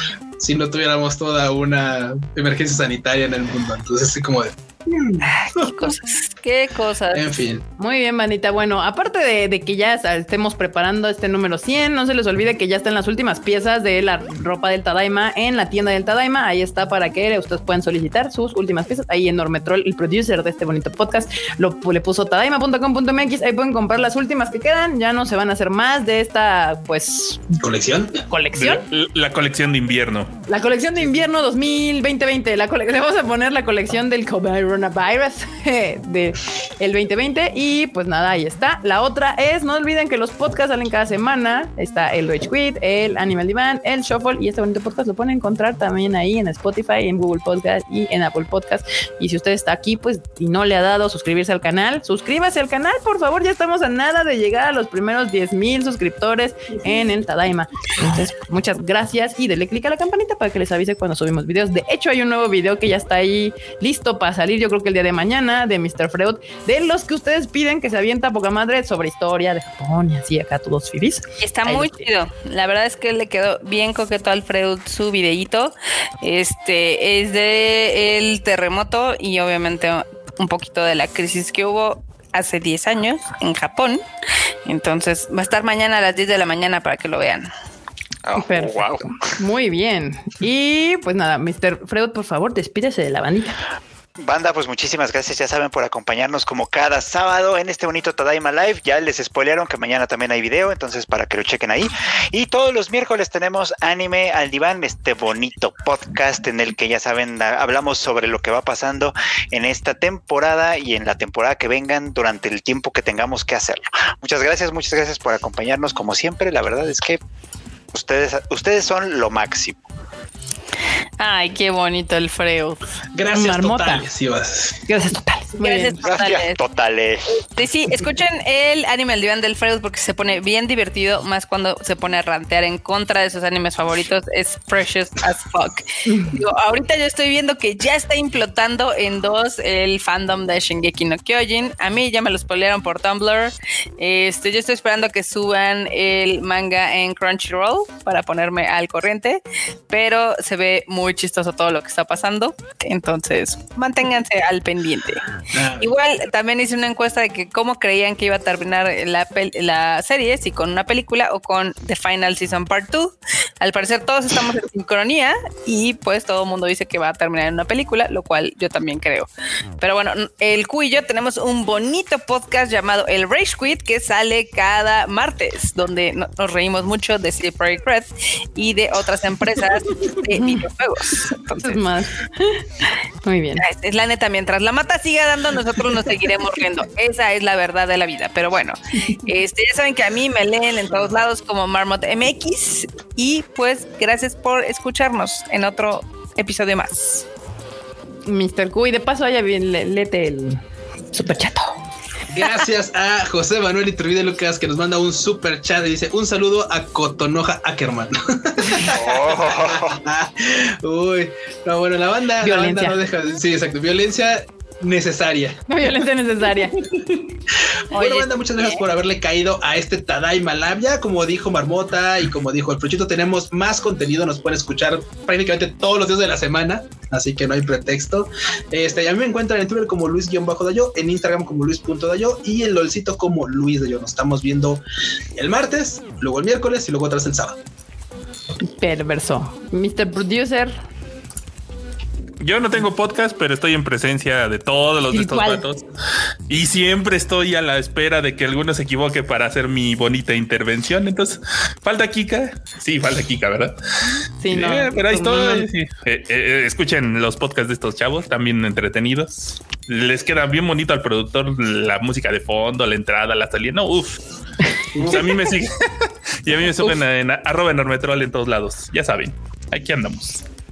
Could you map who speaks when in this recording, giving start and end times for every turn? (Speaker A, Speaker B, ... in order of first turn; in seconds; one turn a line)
Speaker A: 0.4-5.9
Speaker B: 5.2-7.4
Speaker A: 7.1-7.6
Speaker C: 7.8-27.6
Speaker A: 27.6-28.2
Speaker C: 28.3-28.8
Speaker D: 28.5-30.3
Speaker C: 30.5-72.0
Speaker B: 71.4-84.0
Speaker B: 84.7-87.5
Speaker E: 88.2-89.1
Speaker C: 88.3-93.6
Speaker E: 94.2-117.2
Speaker E: 117.9-119.8
Speaker B: 121.2-122.8
Speaker A: 123.1-124.8
Speaker C: 123.3-124.0
Speaker C: 124.9-126.0
Speaker B: 125.6-126.6
Speaker E: 126.0-127.4
Speaker B: 127.3-155.2
Speaker C: 136.1-136.4
Speaker A: 155.5-155.9
Speaker B: 155.8-169.3
Speaker B: 169.8-181.8
Speaker C: 180.3-180.6
Speaker C: 181.6-182.6
Speaker C: 183.2-183.6
Speaker B: 183.6-197.2
Speaker C: 198.2-200.6
Speaker C: 201.1-201.8
Speaker A: 202.3-215.6
Speaker E: 208.9-210.0
Speaker C: 212.4-213.0
Speaker C: 215.7-216.8
Speaker A: 217.9-234.8
Speaker B: 217.9-218.8
Speaker A: 235.3-237.6
Speaker C: 238.7-240.7
Speaker D: 242.4-245.8
Speaker C: 245.1-245.6
Speaker D: 246.5-253.8
Speaker C: 254.4-255.7
Speaker D: 254.5-264.2
Speaker A: 264.9-265.3
Speaker D: 264.9-270.4